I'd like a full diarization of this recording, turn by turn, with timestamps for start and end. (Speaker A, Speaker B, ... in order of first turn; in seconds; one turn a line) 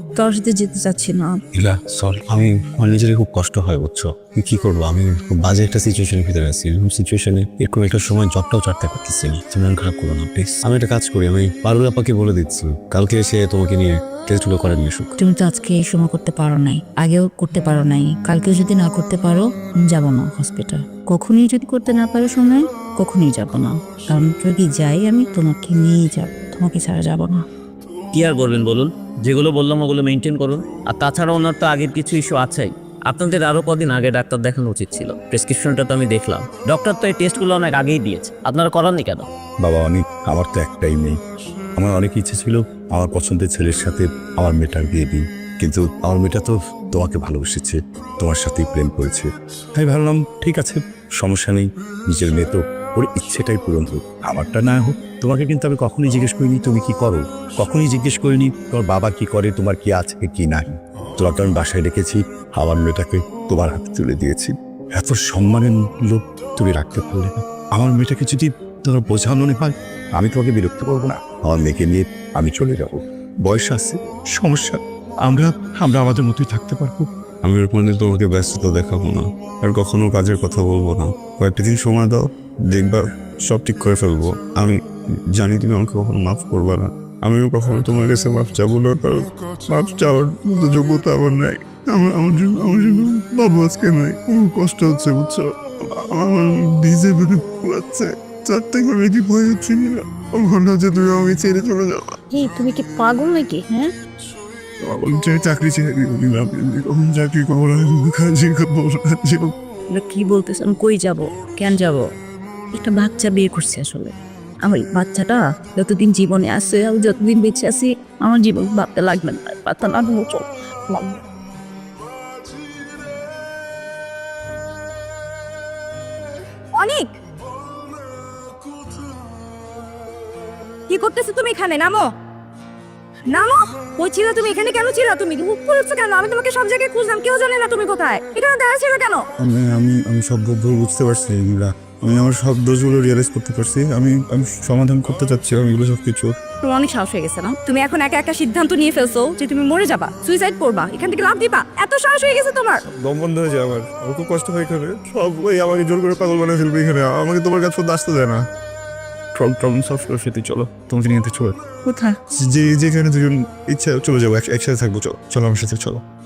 Speaker A: 0.1-1.4
Speaker B: 1.5-15.1
Speaker A: 15.2-27.4
Speaker C: 28.1-39.3
Speaker D: 39.6-41.1
Speaker D: 41.8-76.1
Speaker E: 68.0-68.3
Speaker E: 75.4-84.8
Speaker E: 85.3-102.2
Speaker A: 102.3-103.9
Speaker E: 104.8-109.5
Speaker A: 109.9-112.0
Speaker A: 112.7-121.2
Speaker A: 126.8-127.1
Speaker A: 130.9-132.0
Speaker A: 133.3-139.2
Speaker E: 139.4-146.3
Speaker A: 146.6-152.8
Speaker E: 152.9-158.4
Speaker E: 159.3-161.6
Speaker A: 161.8-162.2
Speaker E: 162.3-166.0